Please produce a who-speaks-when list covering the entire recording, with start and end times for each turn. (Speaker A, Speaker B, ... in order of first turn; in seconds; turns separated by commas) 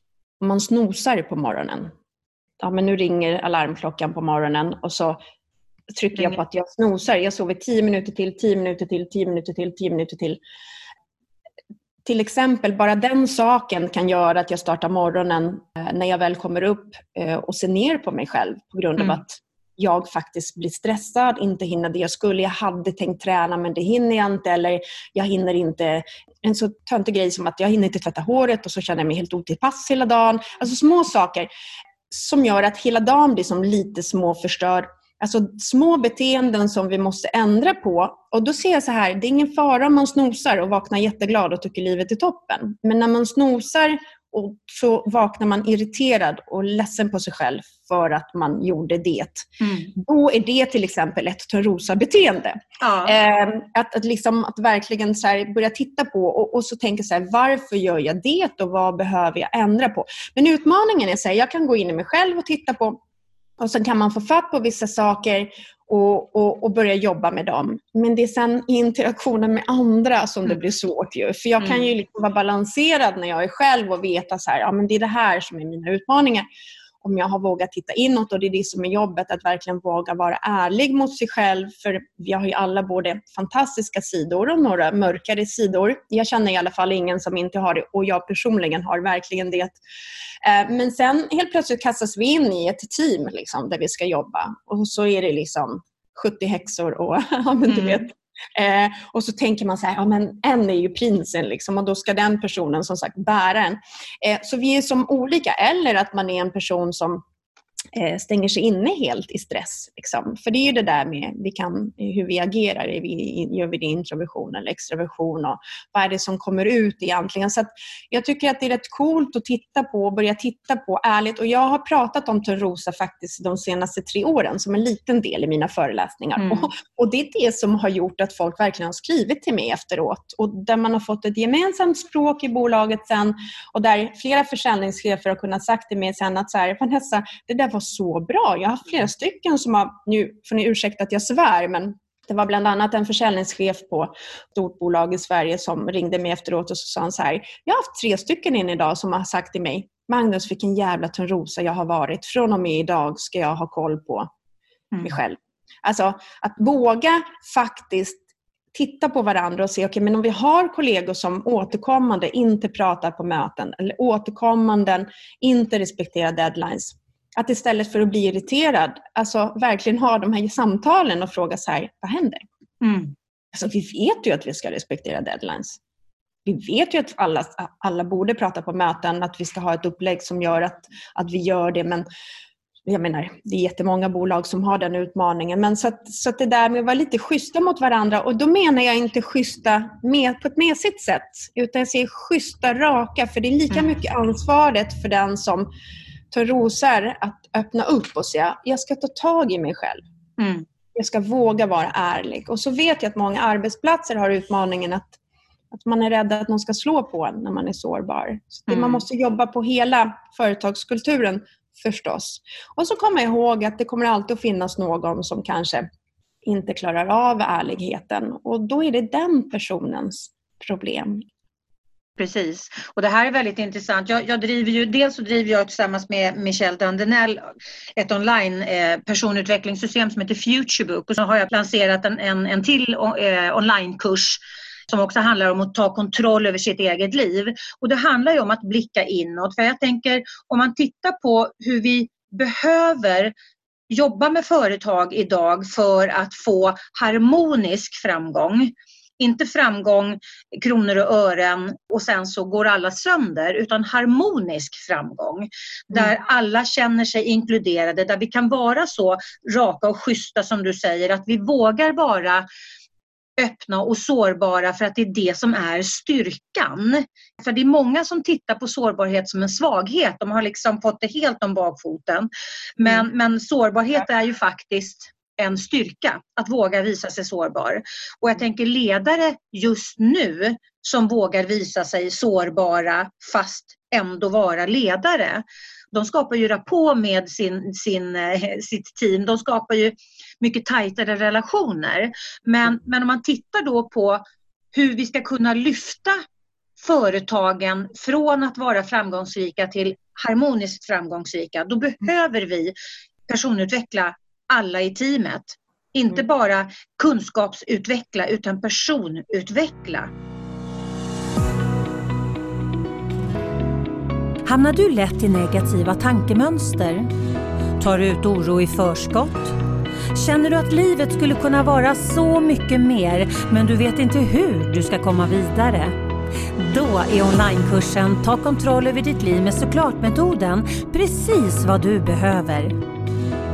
Speaker A: 0.4-1.9, Speaker A: 2.6-5.2, Speaker A: 5.9-10.4, Speaker A: 12.0-31.5, Speaker A: 32.1-63.0, Speaker B: 49.6-49.9, Speaker B: 52.8-53.1, Speaker A: 63.6-76.5, Speaker B: 71.6-71.9, Speaker A: 77.0-89.8, Speaker A: 90.4-107.2, Speaker B: 97.7-98.0, Speaker A: 107.9-154.3, Speaker B: 126.4-126.7, Speaker A: 155.0-172.4, Speaker B: 172.8-173.1, Speaker A: 173.5-175.8, Speaker A: 176.4-182.0, Speaker A: 182.8-195.7, Speaker A: 196.3-200.0, Speaker B: 200.4-200.7, Speaker A: 200.9-205.2, Speaker A: 205.7-215.9, Speaker B: 208.7-209.0, Speaker A: 216.4-221.2, Speaker B: 222.2-243.3, Speaker B: 243.9-262.4, Speaker B: 263.4-296.2, Speaker B: 296.8-302.7, Speaker B: 303.3-310.1, Speaker C: 314.4-317.1, Speaker C: 317.8-319.6, Speaker C: 320.1-325.9, Speaker C: 326.6-332.8